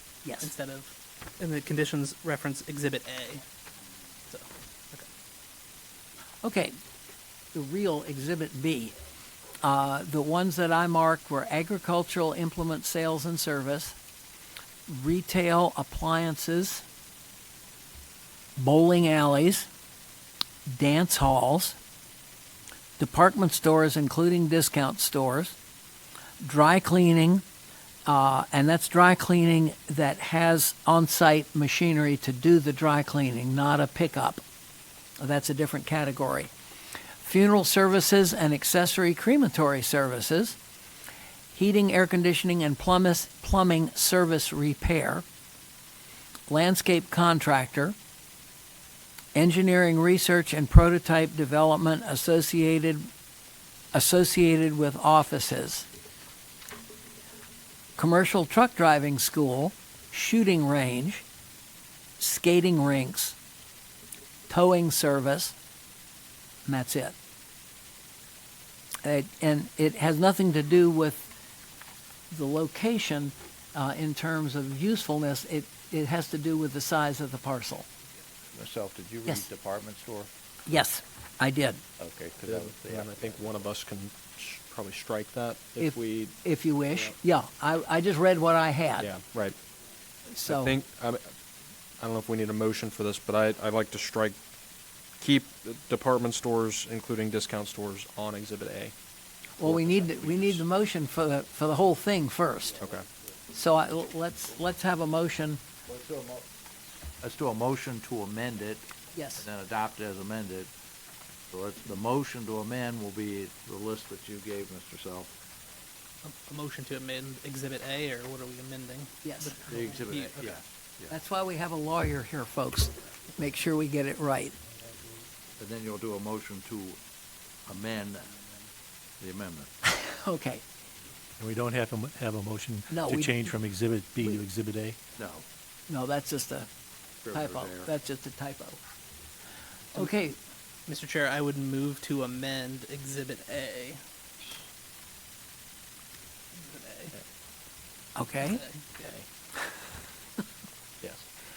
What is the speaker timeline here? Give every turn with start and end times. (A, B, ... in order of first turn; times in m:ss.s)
0:00.2-0:00.5 A
0:00.4-0:03.4 B
0:04.3-0:05.0 B
0:06.4-0:06.7 A
0:07.5-0:09.0 A
0:09.6-0:13.9 A
0:14.9-0:16.8 A
0:18.6-0:19.7 A
0:20.6-0:21.8 A
0:23.0-0:25.6 A
0:26.4-0:27.4 A
0:28.0-0:34.4 A
0:35.2-0:36.5 A
0:37.2-0:40.6 A
0:41.5-0:45.2 A
0:46.5-0:48.0 A
0:49.3-0:53.0 A
0:53.9-0:55.9 A
0:58.0-1:01.2 A
1:02.2-1:03.4 A
1:04.5-1:05.5 A
1:06.6-1:07.2 A
1:09.0-1:11.3 A
1:12.3-1:17.9 A
1:18.5-1:20.3 C
1:20.7-1:21.8 A
1:22.0-1:23.6 C
1:22.4-1:27.1 D
1:25.8-1:29.1 A
1:29.0-1:29.5 D
1:30.3-1:30.8 A
1:30.4-1:31.2 D
1:32.0-1:34.4 D
1:35.2-1:38.9 D
1:39.6-1:42.8 A
1:39.6-1:40.5 D
1:43.5-1:45.6 A
1:45.9-1:46.4 C
1:47.2-1:50.7 C
1:49.1-1:49.4 A
1:51.5-1:55.3 C
1:56.2-2:00.5 B
1:59.2-1:59.5 A
1:59.6-2:01.1 C
2:01.1-2:04.5 A
2:05.6-2:07.0 C
2:07.7-2:08.4 C
2:09.2-2:09.7 C
2:09.8-2:10.6 A
2:11.4-2:15.0 E
2:12.9-2:13.5 A
2:15.2-2:15.4 C
2:15.9-2:16.7 A
2:17.2-2:17.9 C
2:17.3-2:18.8 A
2:19.9-2:20.4 A
2:20.9-2:24.0 B
2:26.6-2:27.2 B
2:28.2-2:28.6 A
2:28.4-2:29.2 B